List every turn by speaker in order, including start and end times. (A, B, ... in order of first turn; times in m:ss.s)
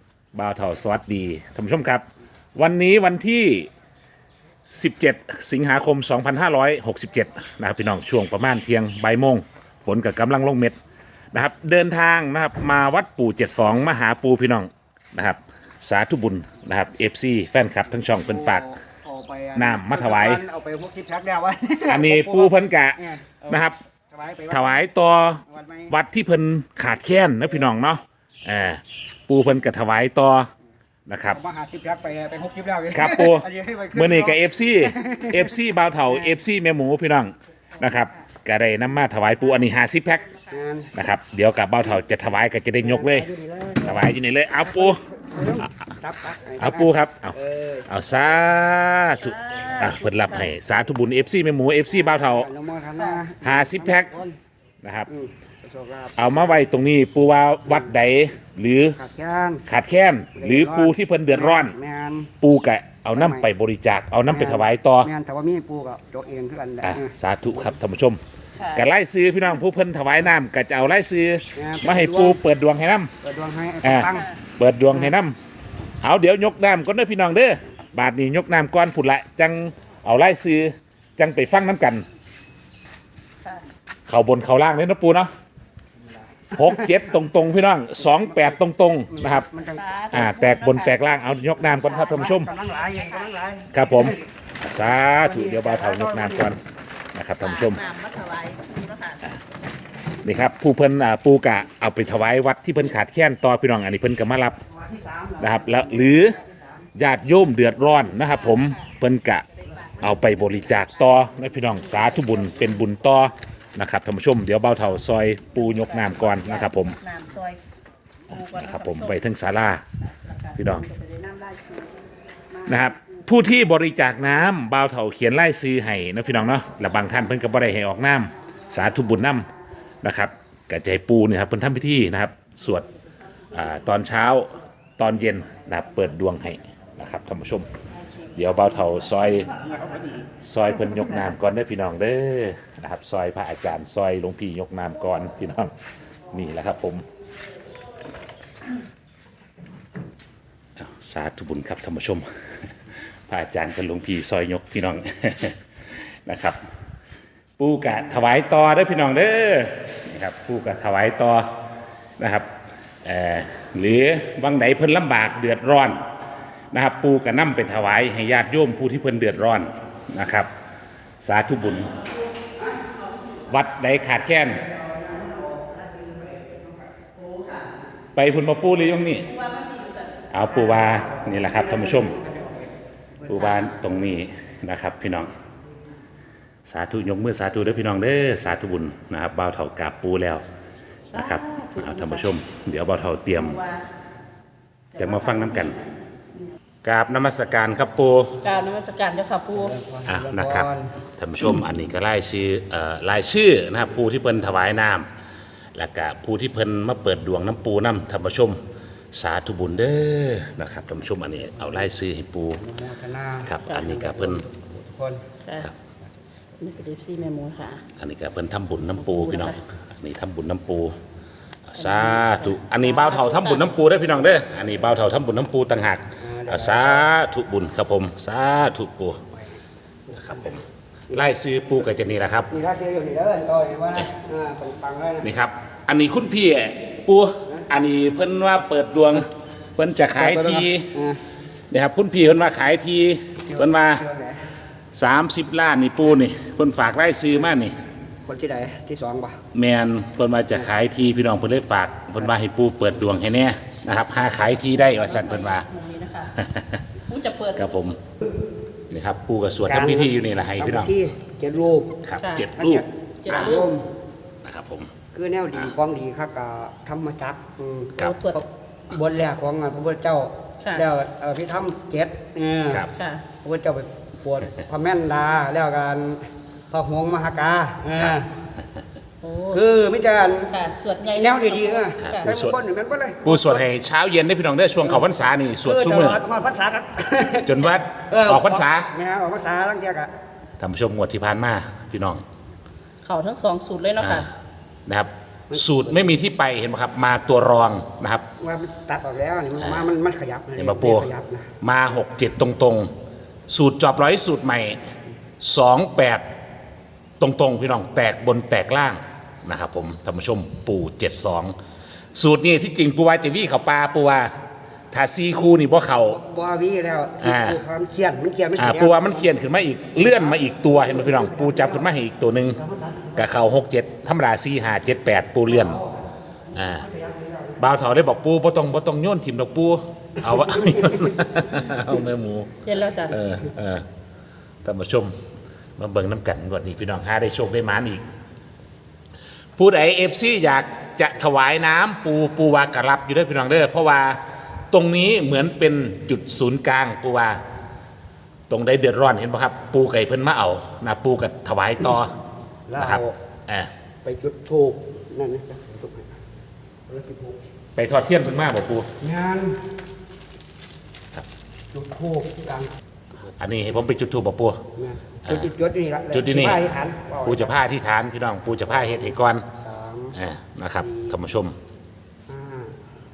0:00.3-0:02.0 A
0:02.6-0:03.7 A
0:04.7-0:10.8 A
0:11.3-0:18.7 A
0:18.0-0:24.8 B
0:19.6-0:20.4 A
0:21.9-0:23.8 A
0:24.5-0:30.5 A
0:25.5-0:26.0 B
0:31.1-0:31.4 A
0:31.3-0:36.4 B
0:32.9-0:40.3 A
0:40.5-0:40.9 B
0:40.9-0:43.3 A
0:42.8-0:47.9 B
0:43.8-0:45.0 A
0:46.6-0:47.4 A
0:47.9-0:52.5 A
0:49.2-0:50.5 C
0:51.9-0:54.3 B
0:53.4-0:54.1 A
0:54.8-0:55.1 A
0:55.1-0:56.6 B
0:56.2-0:59.0 A
0:57.7-0:58.0 B
0:59.0-0:59.6 B
0:59.7-1:01.8 A
1:00.4-1:02.3 B
1:02.4-1:05.1 A
1:03.1-1:03.5 B
1:04.3-1:07.7 B
1:06.8-1:08.2 A
1:08.6-1:08.8 C
1:08.7-1:13.1 A
1:11.5-1:12.4 B
1:13.2-1:14.3 B
1:13.8-1:15.4 A
1:14.9-1:15.1 B
1:16.0-1:22.0 A
1:24.0-1:25.3 A
1:26.1-1:27.1 B
1:26.5-1:29.5 A
1:28.0-1:28.6 B
1:29.1-1:29.8 B
1:29.7-1:31.0 C
1:30.1-1:32.5 A
1:31.7-1:32.3 C
1:32.0-1:34.2 B
1:33.7-1:36.6 A
1:35.2-1:36.5 B
1:37.1-1:37.8 A
1:37.4-1:39.2 C
1:40.2-1:44.6 A
1:44.7-1:46.6 B
1:45.4-1:46.4 A
1:46.9-1:49.4 A
1:48.3-1:48.7 C
1:50.0-1:57.0 A
1:52.0-1:52.6 C
1:55.6-1:57.6 C
1:58.3-1:59.2 C
1:58.3-1:59.8 A
2:00.1-2:02.0 C
2:00.5-2:00.9 A
2:02.5-2:03.1 C
2:02.7-2:09.5 A
2:10.0-2:12.8 A
2:13.5-2:17.7 A
2:18.3-2:19.5 A
2:19.5-2:20.2 B
2:20.4-2:25.7 A
2:26.3-2:27.0 A
2:30.8-2:36.6 A
2:37.6-2:41.5 A
2:42.2-2:46.0 A
2:46.7-2:50.5 A
2:51.2-2:51.9 A
2:53.5-2:54.6 A
2:54.6-2:57.1 B
2:58.1-2:59.4 A
2:59.3-3:00.2 C
3:00.3-3:02.2 A
3:00.5-3:03.7 B
3:03.3-3:05.3 A
3:06.6-3:10.4 A
3:11.1-3:12.3 C
3:11.1-3:13.6 A
3:13.3-3:13.8 C
3:14.9-3:16.0 C
3:15.0-3:15.8 A
3:16.8-3:18.4 A
3:18.4-3:19.8 C
3:19.5-3:20.9 B
3:20.1-3:25.1 A
3:25.7-3:28.6 A
3:29.1-3:32.6 A
3:32.6-3:35.2 B
3:33.4-3:34.4 A
3:33.7-3:33.9 C
3:36.6-3:37.8 C
3:38.0-3:41.0 A
3:39.0-3:39.6 C
3:41.7-3:49.2 A
3:41.8-3:43.7 C
3:46.2-3:47.1 B
3:49.3-3:50.6 B
3:50.2-3:52.5 A
3:52.5-3:55.3 B
3:55.2-4:00.9 A
4:00.1-4:01.2 B
4:01.7-4:04.0 A
4:03.4-4:04.4 B
4:04.9-4:07.8 A
4:08.2-4:09.4 B
4:09.5-4:15.7 A
4:14.7-4:16.4 C
4:16.4-4:16.8 A
4:17.1-4:17.7 C
4:17.6-4:18.0 A
4:18.9-4:20.9 A
4:19.6-4:22.0 B
4:22.0-4:22.8 A
4:22.2-4:22.5 C
4:22.5-4:23.9 B
4:23.2-4:23.7 C
4:24.4-4:24.9 A
4:25.1-4:32.9 B
4:28.0-4:28.4 C
4:32.9-4:33.2 C
4:33.4-4:38.3 B
4:39.2-4:39.7 C
4:39.5-4:40.6 B
4:40.5-4:42.3 C
4:41.1-4:43.7 B
4:42.0-4:42.5 A
4:43.2-4:46.2 A
4:45.6-4:50.1 B
4:47.4-4:48.9 A
4:50.6-4:52.2 A
4:53.0-4:54.3 C
4:54.0-4:54.3 A
4:54.9-4:58.2 A
4:55.5-4:56.1 B
4:58.4-5:01.5 B
4:59.6-4:59.9 A
5:00.6-5:01.1 A
5:01.6-5:02.9 A
5:03.5-5:04.9 A
5:05.4-5:06.2 A
5:07.2-5:11.6 A
5:12.2-5:14.3 A
5:14.9-5:16.2 A
5:15.9-5:19.4 B
5:17.2-5:17.6 A
5:18.6-5:22.6 A
5:20.0-5:21.9 B
5:22.5-5:23.3 B
5:23.2-5:25.8 A
5:25.5-5:26.0 B
5:26.6-5:26.9 A
5:26.6-5:27.6 B
5:27.6-5:33.9 A
5:30.3-5:31.4 B
5:32.6-5:33.1 C
5:34.6-5:35.1 A
5:35.8-5:38.0 A
5:39.6-5:47.4 A
5:48.5-5:52.1 A
5:52.7-5:53.2 B
5:52.8-5:53.7 A
5:54.0-5:56.2 B
5:56.9-5:57.4 B
5:57.8-5:58.9 A
5:59.0-5:59.6 B
6:01.7-6:02.7 B
6:03.4-6:04.6 A
6:04.8-6:07.6 B
6:05.2-6:05.5 A
6:06.1-6:06.6 A
6:07.2-6:09.5 A
6:08.7-6:10.2 B
6:10.2-6:11.6 A
6:10.8-6:11.2 B
6:12.3-6:12.8 B